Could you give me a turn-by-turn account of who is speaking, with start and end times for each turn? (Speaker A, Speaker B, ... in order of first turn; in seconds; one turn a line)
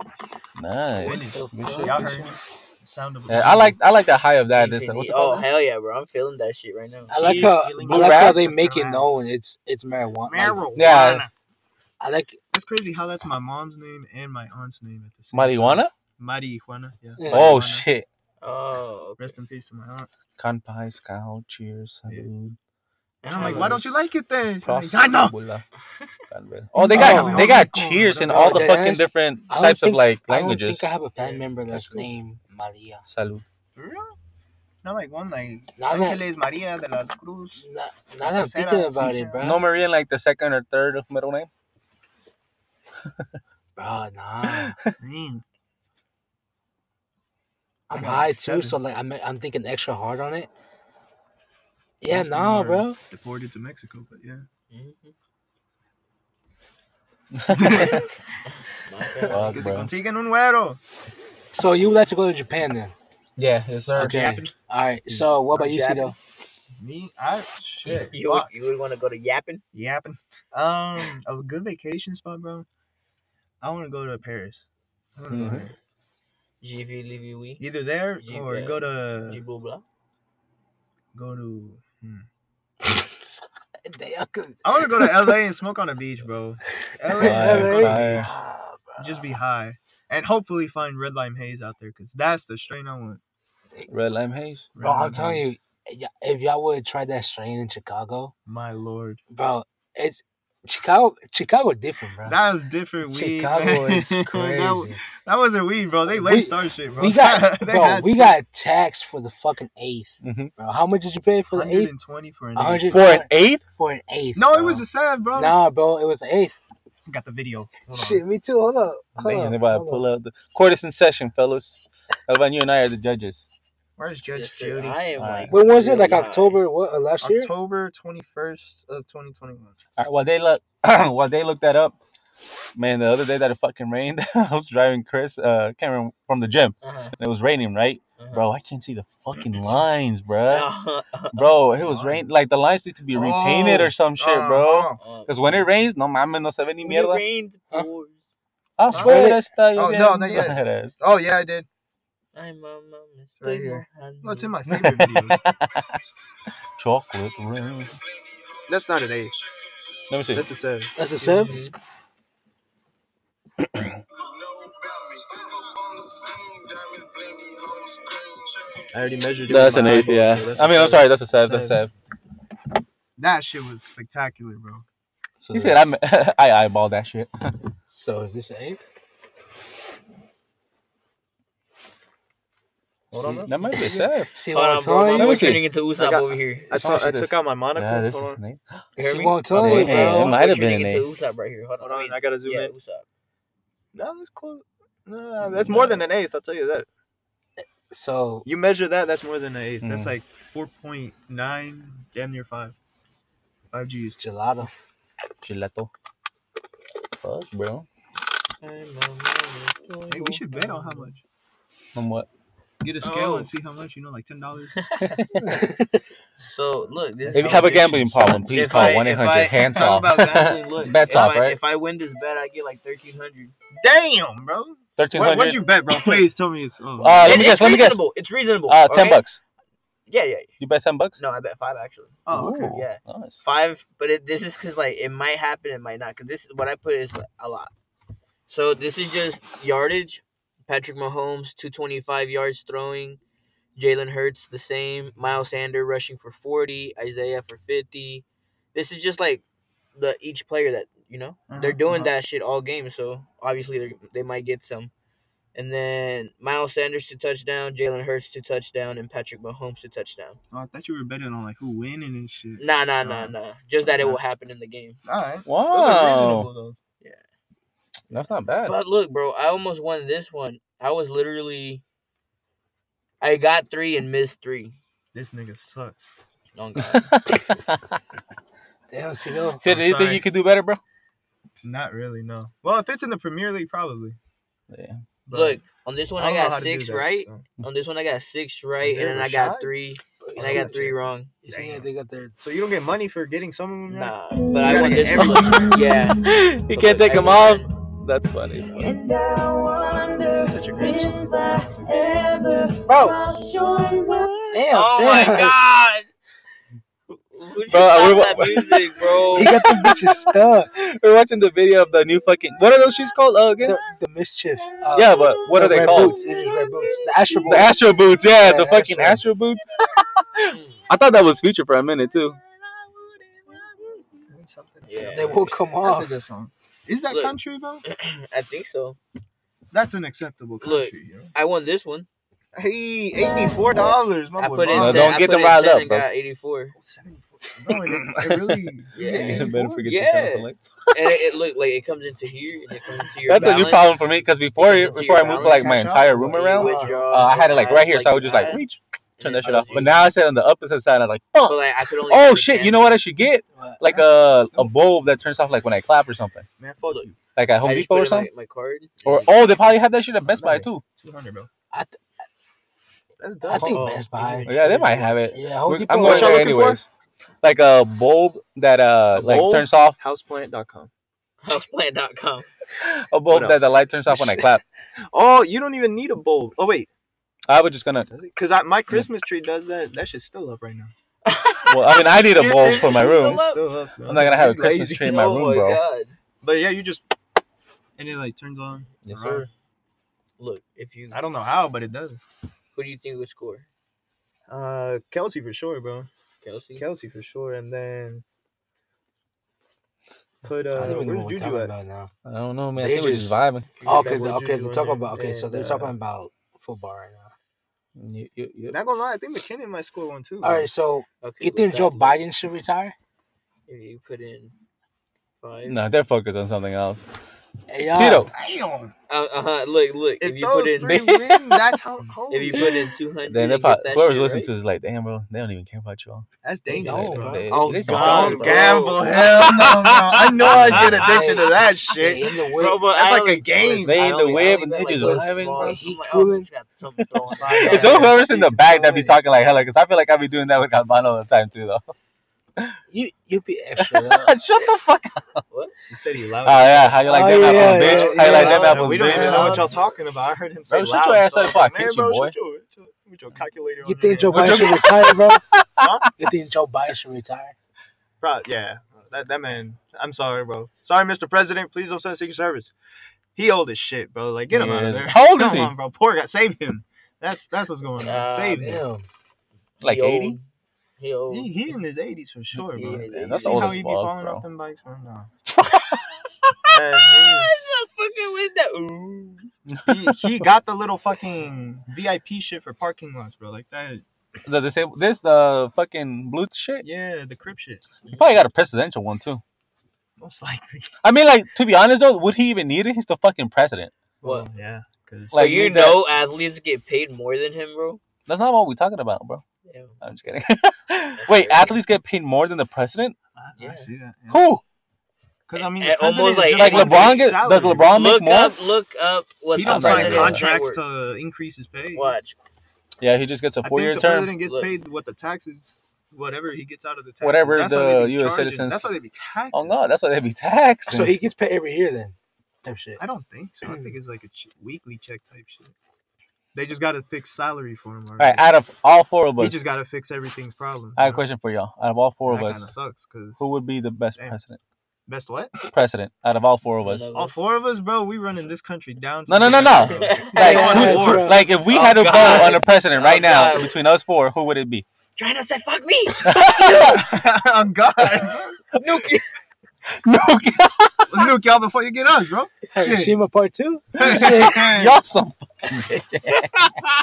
Speaker A: 0.6-2.3
Speaker B: 1.0-3.8
Speaker C: 1.0-2.3
Speaker A: 3.3-5.5
Speaker D: 4.5-7.6
Speaker C: 7.1-10.6
Speaker A: 7.2-8.5
Speaker B: 7.2-9.1
Speaker B: 10.3-11.3
Speaker A: 10.8-11.3
Speaker C: 12.0-12.4
Speaker B: 12.5-17.9
Speaker A: 15.3-15.9
Speaker C: 17.2-17.5
Speaker A: 17.3-18.1
Speaker D: 18.4-19.4
Speaker B: 19.2-20.1
Speaker A: 20.4-22.6
Speaker D: 23.2-23.9
Speaker B: 23.2-25.4
Speaker A: 23.3-23.9
Speaker A: 24.6-25.6
Speaker A: 26.3-30.9
Speaker B: 26.8-28.7
Speaker C: 26.8-27.5
Speaker C: 28.3-33.1
Speaker D: 31.2-31.5
Speaker A: 31.7-32.1
Speaker A: 33.1-33.4
Speaker B: 33.8-34.2
Speaker B: 34.8-37.6
Speaker C: 35.8-36.2
Speaker C: 37.6-39.7
Speaker B: 38.2-39.4
Speaker A: 39.4-41.5
Speaker C: 43.8-44.8
Speaker A: 44.5-44.7
Speaker B: 45.0-45.4
Speaker C: 47.9-50.5
Speaker B: 47.9-48.8
Speaker C: 52.0-53.0
Speaker B: 52.1-54.5
Speaker D: 54.7-55.1
Speaker A: 57.3-58.1
Speaker B: 57.5-58.1
Speaker D: 58.5-59.6
Speaker A: 59.3-59.9
Speaker B: 59.4-60.8
Speaker C: 61.5-62.9
Speaker A: 63.4-64.5
Speaker C: 64.0-66.2
Speaker B: 64.1-64.5
Speaker D: 65.5-66.2
Speaker B: 66.8-68.5
Speaker D: 67.8-69.6
Speaker B: 69.7-72.7
Speaker B: 73.6-74.7
Speaker B: 75.2-75.8
Speaker A: 75.3-75.7
Speaker D: 76.6-77.7
Speaker B: 77.6-79.4
Speaker D: 78.2-79.8
Speaker B: 81.1-82.3
Speaker C: 83.8-85.4
Speaker B: 84.6-88.3
Speaker C: 87.1-89.3
Speaker A: 87.2-88.3
Speaker B: 89.0-93.2
Speaker A: 93.9-94.7
Speaker B: 94.8-95.5
Speaker C: 94.8-98.3
Speaker B: 98.5-99.2
Speaker C: 99.3-102.4
Speaker B: 102.2-108.3
Speaker C: 103.0-105.0
Speaker C: 106.1-111.9
Speaker A: 110.2-110.5
Speaker B: 111.5-113.0
Speaker C: 112.5-114.8
Speaker A: 112.9-113.6
Speaker B: 114.3-115.6
Speaker C: 115.3-116.5
Speaker B: 117.1-118.2
Speaker C: 117.9-120.0
Speaker A: 119.2-123.5
Speaker B: 124.0-125.0
Speaker D: 124.3-126.6
Speaker A: 125.2-125.5
Speaker C: 125.5-127.5
Speaker B: 127.2-129.8
Speaker A: 130.0-132.0
Speaker A: 132.8-140.7
Speaker D: 136.8-137.2
Speaker D: 138.2-138.5
Speaker D: 140.5-141.7
Speaker A: 141.3-147.2
Speaker B: 141.8-142.3
Speaker B: 143.1-145.0
Speaker D: 145.0-145.7
Speaker D: 146.8-148.3
Speaker A: 148.8-150.9
Speaker B: 148.9-151.7
Speaker C: 148.9-149.4
Speaker D: 148.9-149.2
Speaker D: 152.3-154.5
Speaker B: 153.4-155.4
Speaker A: 154.7-156.0
Speaker A: 156.8-158.0
Speaker B: 158.7-159.4
Speaker A: 160.1-160.5
Speaker B: 160.3-161.6
Speaker C: 161.0-161.6
Speaker D: 161.2-161.7
Speaker A: 163.7-164.0
Speaker B: 168.9-171.8
Speaker A: 169.5-171.9
Speaker B: 173.2-174.8
Speaker C: 175.4-175.8
Speaker A: 175.5-177.6
Speaker C: 177.9-178.8
Speaker B: 183.1-184.1
Speaker C: 183.1-185.6
Speaker A: 183.5-184.3
Speaker D: 184.5-186.7
Speaker A: 185.2-185.7
Speaker B: 186.0-188.4
Speaker A: 186.7-188.8
Speaker D: 189.0-193.1
Speaker C: 189.0-190.4
Speaker A: 189.5-191.1
Speaker B: 191.8-192.7
Speaker B: 193.9-196.9
Speaker C: 197.6-198.5
Speaker B: 198.4-202.8
Speaker A: 199.8-200.1
Speaker B: 203.7-204.2
Speaker C: 204.2-204.7
Speaker A: 205.4-205.9
Speaker A: 207.2-207.9
Speaker D: 208.6-211.1
Speaker B: 210.1-211.2
Speaker A: 211.9-212.3
Speaker B: 212.8-214.8
Speaker D: 213.0-213.5
Speaker D: 214.8-215.1
Speaker A: 215.0-215.7
Speaker C: 215.4-215.8
Speaker D: 216.5-223.5
Speaker A: 217.3-221.6
Speaker B: 217.3-218.8
Speaker B: 223.8-227.5
Speaker A: 225.0-225.6
Speaker D: 225.9-226.2
Speaker A: 227.0-228.0
Speaker D: 227.2-229.2
Speaker A: 228.7-229.4
Speaker D: 230.1-230.5
Speaker A: 230.6-231.2
Speaker D: 231.2-237.7
Speaker B: 232.3-232.8
Speaker A: 232.3-233.4
Speaker D: 238.5-243.2
Speaker D: 243.8-249.4
Speaker D: 249.9-254.9
Speaker B: 251.5-252.1
Speaker D: 255.6-260.4
Speaker B: 260.5-263.3
Speaker D: 262.6-265.0
Speaker B: 265.1-266.8
Speaker A: 265.5-266.5
Speaker A: 268.1-268.8
Speaker D: 268.6-271.8
Speaker D: 273.2-274.8
Speaker B: 275.1-276.1
Speaker D: 276.6-277.3
Speaker A: 276.8-278.0
Speaker C: 278.9-279.6
Speaker A: 279.6-280.8
Speaker B: 279.6-280.3
Speaker B: 281.6-284.2
Speaker A: 284.7-285.0
Speaker B: 285.3-285.6
Speaker D: 285.3-291.3
Speaker B: 286.1-287.4
Speaker B: 288.8-289.8
Speaker C: 290.2-292.4
Speaker B: 290.4-290.9
Speaker B: 291.5-291.9
Speaker B: 292.4-295.8
Speaker D: 293.9-297.7
Speaker E: 294.5-295.6
Speaker A: 296.2-298.8
Speaker E: 298.8-304.3
Speaker B: 300.3-302.3
Speaker C: 302.8-303.3
Speaker C: 304.5-305.6
Speaker D: 304.7-306.1
Speaker D: 307.1-309.6
Speaker A: 307.7-313.8
Speaker C: 309.3-310.7
Speaker C: 313.6-317.8
Speaker A: 314.9-316.2
Speaker A: 317.5-322.4
Speaker C: 318.3-319.2
Speaker D: 320.5-320.8
Speaker B: 323.2-327.8
Speaker D: 324.9-325.5
Speaker C: 325.0-326.1
Speaker D: 327.1-329.0
Speaker B: 329.7-331.3
Speaker D: 330.6-332.1
Speaker B: 332.6-335.2
Speaker D: 334.4-336.8
Speaker A: 334.7-336.1
Speaker B: 336.8-339.9
Speaker A: 337.7-341.2
Speaker D: 338.9-344.0
Speaker A: 343.3-356.5
Speaker D: 344.6-345.8
Speaker B: 345.2-347.4
Speaker D: 346.3-348.6
Speaker D: 349.2-350.1
Speaker D: 351.5-353.0
Speaker C: 353.5-353.8
Speaker B: 353.9-354.7
Speaker B: 356.6-357.2
Speaker A: 357.4-358.3
Speaker D: 357.6-359.7
Speaker A: 359.1-360.8
Speaker B: 360.2-361.5
Speaker C: 361.7-362.0
Speaker B: 363.2-364.4
Speaker C: 363.5-364.6
Speaker D: 363.6-365.1
Speaker A: 364.4-366.9
Speaker C: 365.2-366.5
Speaker B: 366.0-366.8
Speaker A: 367.4-370.0
Speaker B: 369.1-370.9
Speaker D: 371.4-372.5
Speaker A: 372.8-374.6
Speaker B: 373.3-374.5
Speaker B: 375.1-376.9
Speaker A: 377.5-378.1
Speaker B: 378.1-380.9
Speaker D: 381.2-383.6
Speaker A: 381.7-383.4
Speaker B: 382.6-385.2
Speaker A: 384.1-385.8
Speaker D: 385.0-386.2
Speaker B: 386.4-387.1
Speaker B: 388.0-389.5
Speaker A: 389.1-389.5
Speaker D: 390.4-391.2
Speaker B: 391.1-392.2
Speaker D: 392.8-393.7
Speaker B: 394.5-396.1
Speaker D: 396.4-396.9
Speaker B: 396.8-398.2
Speaker B: 400.4-401.7
Speaker C: 400.8-402.1
Speaker A: 402.2-403.7
Speaker C: 402.8-407.3
Speaker B: 403.8-405.9
Speaker A: 408.0-408.8
Speaker B: 408.7-410.7
Speaker C: 410.4-412.9
Speaker D: 411.2-412.2
Speaker D: 413.7-414.6
Speaker D: 415.4-415.8
Speaker A: 415.7-417.1
Speaker C: 417.7-418.3
Speaker A: 417.9-418.3
Speaker B: 418.3-418.9
Speaker D: 419.1-421.0
Speaker B: 420.2-422.9
Speaker A: 420.8-421.6
Speaker D: 422.3-424.5
Speaker A: 423.3-426.3
Speaker B: 426.4-432.3
Speaker C: 426.7-428.8
Speaker A: 426.8-428.6
Speaker D: 427.5-431.7
Speaker A: 430.2-431.1
Speaker C: 430.9-432.8
Speaker D: 432.5-438.2
Speaker B: 432.9-434.0
Speaker A: 433.7-435.8
Speaker C: 434.9-436.5
Speaker A: 437.0-441.8
Speaker B: 437.3-439.2
Speaker C: 442.9-444.4
Speaker A: 443.8-445.4
Speaker B: 445.9-454.8
Speaker A: 446.4-449.7
Speaker C: 447.1-448.8
Speaker D: 447.7-449.8
Speaker A: 450.7-452.4
Speaker C: 453.9-455.4
Speaker A: 454.3-455.9
Speaker B: 455.8-456.1
Speaker C: 456.2-457.6
Speaker B: 458.2-462.7
Speaker B: 463.4-468.8
Speaker A: 464.5-465.7
Speaker D: 468.0-468.8
Speaker C: 468.5-469.1
Speaker D: 469.8-470.4
Speaker A: 469.8-470.4
Speaker D: 471.0-471.5
Speaker B: 471.3-475.3
Speaker A: 472.6-474.4
Speaker D: 472.7-473.8
Speaker A: 475.7-476.0
Speaker B: 476.7-477.6
Speaker D: 476.9-479.5
Speaker A: 479.7-480.4
Speaker B: 479.9-484.0
Speaker A: 484.4-486.9
Speaker B: 486.8-487.8
Speaker D: 488.1-488.4
Speaker A: 488.1-489.4
Speaker B: 490.2-490.9
Speaker A: 491.0-493.9
Speaker B: 494.2-495.6
Speaker A: 495.3-496.0
Speaker D: 495.3-498.0
Speaker A: 498.3-499.4
Speaker D: 499.7-500.0
Speaker A: 500.0-503.2
Speaker D: 501.2-501.8
Speaker B: 503.4-504.5
Speaker D: 503.6-503.9
Speaker A: 504.3-504.6
Speaker B: 505.5-508.0
Speaker D: 505.6-510.8
Speaker A: 506.5-508.6
Speaker B: 509.6-512.2
Speaker A: 509.6-510.4
Speaker D: 511.9-512.4
Speaker A: 513.0-514.4
Speaker B: 513.6-519.8
Speaker D: 514.4-514.7
Speaker A: 517.2-518.9
Speaker A: 519.5-521.2
Speaker C: 520.9-523.0
Speaker B: 523.0-525.7
Speaker B: 526.5-528.5
Speaker A: 528.2-529.6
Speaker B: 529.4-531.3
Speaker A: 531.0-532.7
Speaker B: 532.3-533.5
Speaker A: 533.4-534.6
Speaker B: 535.1-535.6
Speaker A: 535.7-537.1
Speaker D: 536.8-537.3
Speaker B: 537.1-541.4
Speaker A: 539.3-544.9
Speaker D: 539.4-541.1
Speaker C: 540.3-541.4
Speaker D: 541.7-543.8
Speaker D: 545.2-547.0
Speaker A: 546.2-547.1
Speaker B: 546.7-548.6
Speaker D: 548.8-549.2
Speaker A: 549.9-551.3
Speaker B: 551.1-553.2
Speaker C: 552.7-554.7
Speaker B: 554.0-555.0
Speaker A: 554.0-556.9
Speaker D: 556.3-556.7